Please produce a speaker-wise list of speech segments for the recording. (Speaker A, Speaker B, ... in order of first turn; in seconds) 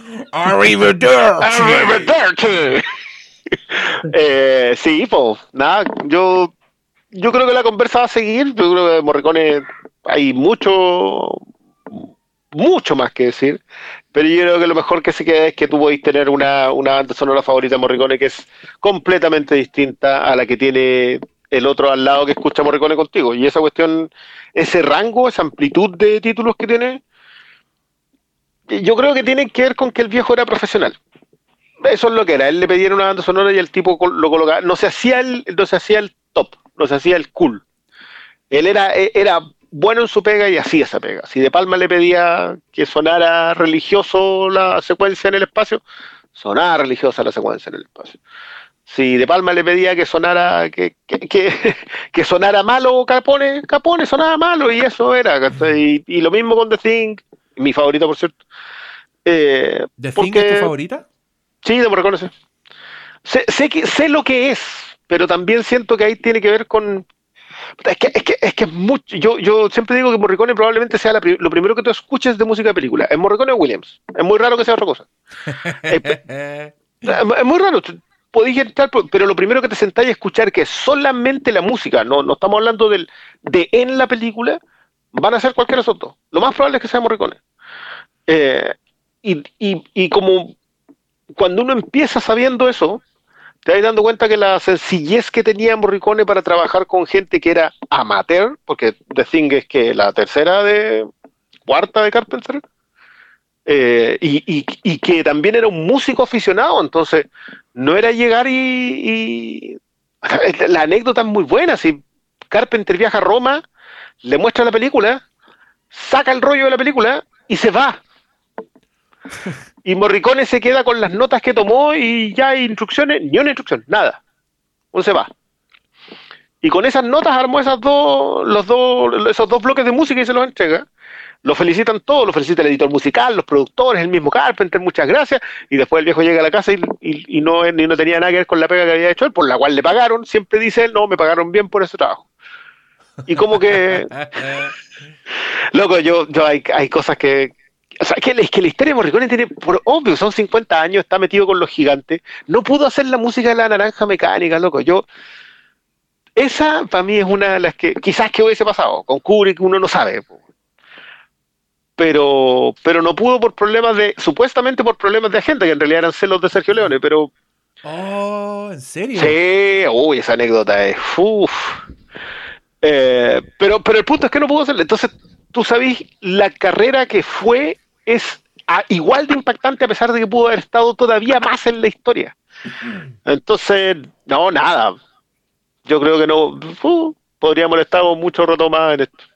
Speaker A: 0.3-2.1, 60.0-61.0, 75.5-77.1, 143.3-144.7, 167.8-169.3
Speaker B: 1.4-2.9, 3.7-6.5, 7.1-12.0, 12.5-13.6, 14.1-27.0, 28.7-30.9, 31.8-37.6, 38.5-45.8, 46.3-48.2, 48.9-58.4, 59.2-60.7, 61.6-62.3, 63.2-67.0, 67.8-75.1, 75.9-76.2, 77.0-84.6, 85.1-87.4, 88.3-90.5, 91.3-93.0, 93.6-101.1, 101.7-102.6, 103.7-113.6, 114.2-115.2, 115.9-118.0, 119.8-124.2, 124.9-125.3, 126.6-130.9, 131.4-142.3, 143.3-144.5, 145.7-155.1, 156.4-160.3, 162.0-167.3, 169.2-171.8, 172.8-182.3, 183.2-184.9, 185.8-189.2